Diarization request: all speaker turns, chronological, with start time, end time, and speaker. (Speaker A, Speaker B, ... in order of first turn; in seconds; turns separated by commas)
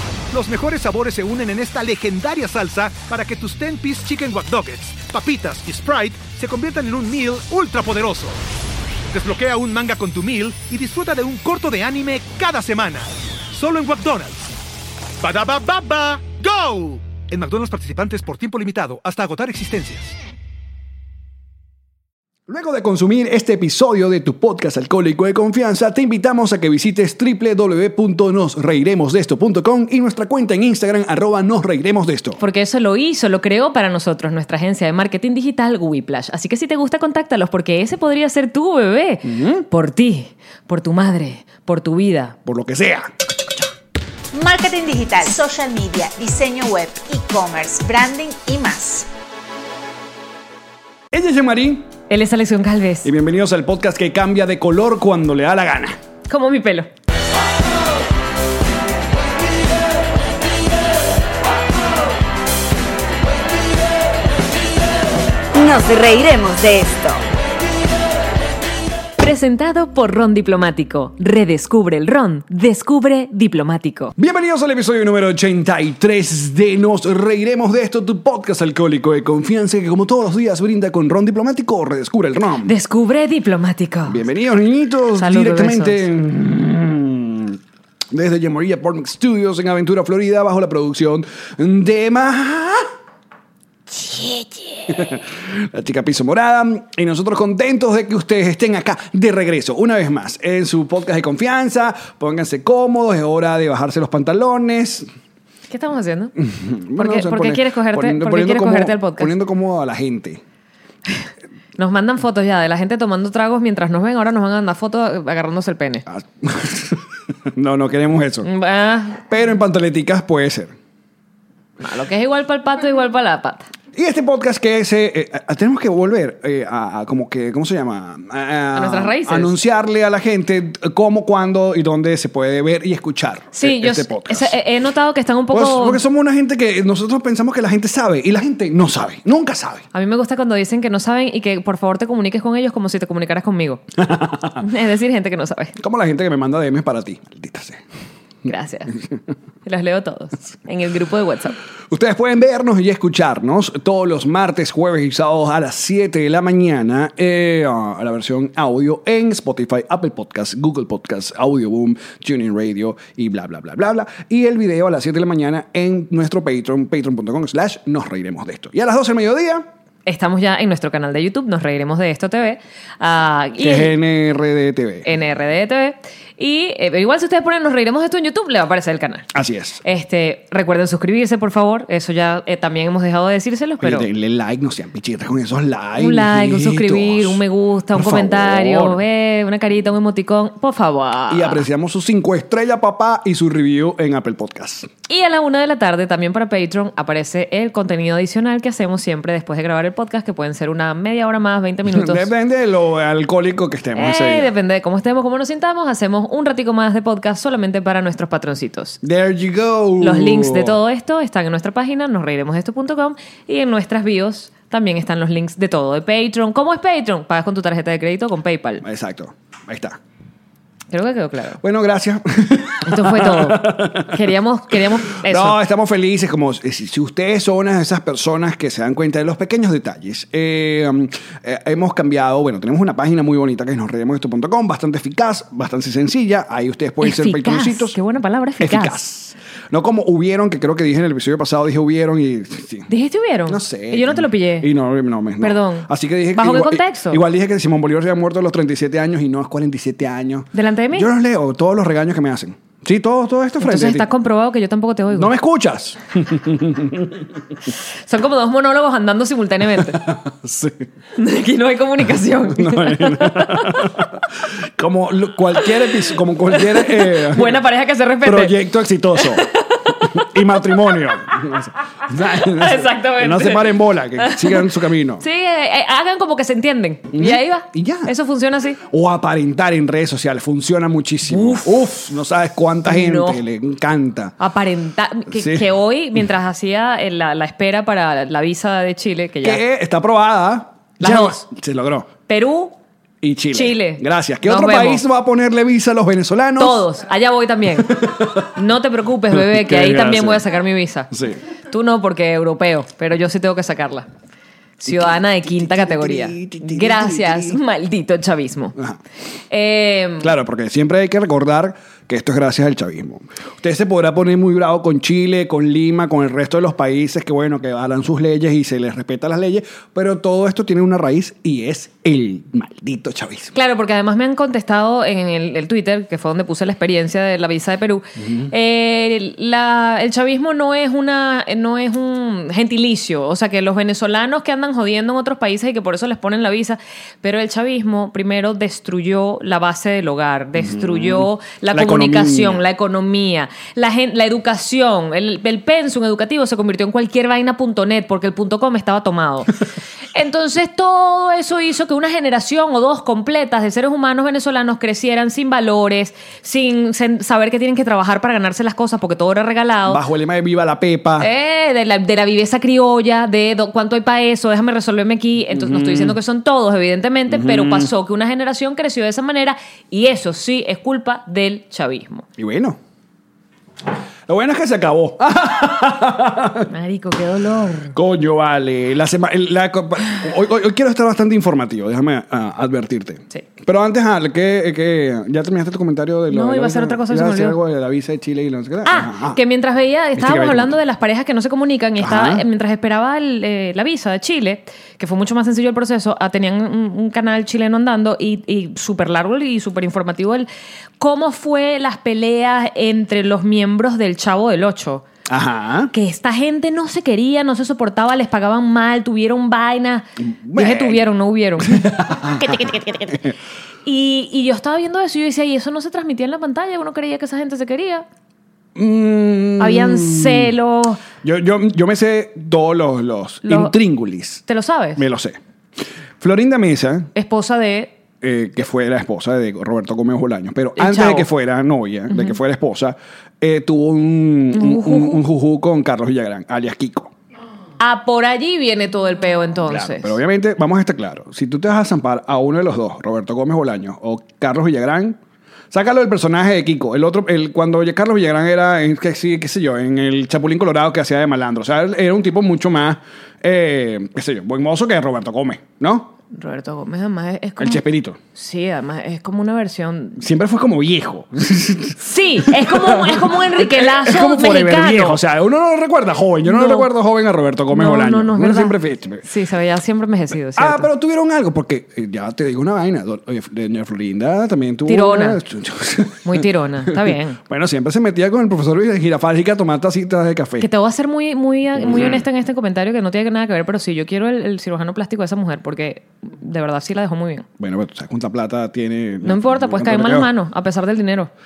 Speaker A: 0.3-8.4, Speaker A: 9.1-14.4, Speaker A: 15.2-20.1, Speaker B: 22.5-32.4, Speaker C: 32.4-42.4, Speaker B: 39.2-39.7, Speaker B: 42.5-43.6, Speaker D: 44.3-49.1, Speaker B: 51.1-51.9, Speaker C: 52.1-53.1, Speaker B: 53.0-56.0, Speaker C: 56.3-56.9, Speaker D: 65.5-67.2, Speaker C: 69.2-74.1, Speaker B: 74.2-82.7, Speaker C: 82.6-84.2, Speaker B: 84.1-87.6, Speaker C: 85.2-86.0, Speaker B: 88.1-92.9, Speaker C: 93.9-95.0, Speaker B: 94.9-105.1, Speaker C: 105.7-106.3, Speaker B: 106.4-110.4, Speaker C: 107.0-109.3, Speaker C: 111.8-116.1, Speaker B: 116.1-118.5, Speaker C: 118.4-119.3, Speaker B: 119.3-120.7, Speaker C: 121.8-123.7, Speaker B: 123.9-134.6, Speaker C: 128.7-129.5, Speaker C: 133.5-136.0, Speaker B: 135.5-139.8, Speaker C: 139.9-143.8, Speaker B: 144.0-144.6, Speaker C: 144.6-145.8, Speaker B: 145.8-147.8, Speaker C: 148.4-148.9, Speaker C: 149.6-151.6, Speaker B: 151.9-169.7, Speaker C: 170.1-173.9, Speaker B: 173.6-175.1, Speaker C: 175.0-179.3, Speaker B: 179.3-179.8, Speaker C: 179.8-184.1, Speaker B: 183.8-189.0, Speaker C: 185.9-191.6, Speaker B: 191.3-194.9, Speaker C: 195.1-202.3, Speaker B: 201.9-204.5, Speaker C: 203.9-209.0, Speaker B: 209.0-210.8, Speaker C: 210.0-218.8, Speaker B: 218.8-220.0, Speaker C: 220.9-221.6, Speaker B: 221.6-238.0, Speaker C: 222.8-225.6, Speaker C: 237.0-239.0, Speaker B: 238.6-242.9, Speaker C: 242.9-244.7, Speaker B: 243.5-254.1, Speaker C: 245.4-247.2, Speaker C: 250.5-251.1, Speaker C: 253.6-255.3, Speaker B: 255.1-257.3, Speaker C: 258.1-260.0, Speaker B: 259.9-260.9, Speaker C: 261.2-263.9, Speaker B: 262.5-267.6, Speaker C: 265.7-266.0, Speaker C: 266.5-268.6, Speaker B: 268.2-269.5, Speaker C: 269.1-271.0, Speaker B: 270.0-275.2, Speaker C: 272.2-278.8, Speaker B: 277.1-278.1, Speaker B: 278.8-284.3, Speaker C: 281.2-281.9, Speaker C: 282.9-283.4, Speaker C: 284.4-289.6, Speaker B: 285.3-285.7, Speaker B: 289.4-292.1, Speaker C: 291.0-291.4, Speaker C: 292.3-292.8, Speaker B: 293.2-296.9, Speaker C: 293.5-295.0, Speaker C: 296.6-298.0, Speaker B: 297.8-298.5, Speaker C: 298.5-304.1, Speaker B: 299.3-300.4, Speaker B: 301.1-301.4, Speaker C: 304.8-308.8, Speaker B: 304.8-307.6, Speaker C: 309.5-310.3, Speaker B: 310.2-323.5, Speaker C: 323.5-360.0, Speaker B: 328.2-328.5, Speaker B: 340.6-342.6, Speaker B: 359.9-361.3, Speaker C: 361.2-372.2, Speaker B: 365.5-366.2, Speaker B: 367.3-367.9, Speaker B: 372.4-372.8, Speaker B: 374.3-376.7, Speaker C: 376.7-377.9, Speaker B: 377.9-389.4, Speaker C: 386.3-387.6, Speaker C: 388.8-400.5, Speaker B: 390.1-390.8, Speaker B: 392.0-392.4, Speaker C: 401.0-405.1, Speaker B: 405.3-405.9, Speaker C: 405.9-413.2, Speaker B: 410.2-411.1, Speaker B: 411.6-413.3, Speaker C: 413.8-418.1, Speaker B: 418.8-420.5, Speaker C: 419.6-421.0, Speaker B: 421.2-424.4, Speaker C: 423.4-423.8, Speaker C: 424.5-425.0, Speaker B: 424.9-425.4, Speaker B: 426.2-427.1, Speaker C: 427.1-427.9, Speaker B: 428.2-437.1, Speaker C: 430.8-431.3, Speaker C: 434.5-435.2, Speaker C: 437.8-440.1, Speaker B: 439.7-445.2, Speaker B: 445.7-456.1, Speaker C: 456.3-457.8, Speaker B: 457.6-458.2, Speaker C: 458.3-460.2, Speaker B: 460.2-469.2, Speaker C: 462.0-465.2, Speaker C: 466.4-466.9, Speaker C: 467.7-470.9, Speaker B: 470.6-480.7, Speaker C: 474.9-475.4, Speaker C: 476.2-477.4, Speaker C: 480.6-487.4, Speaker B: 481.8-482.2, Speaker B: 487.6-490.3, Speaker C: 489.2-491.3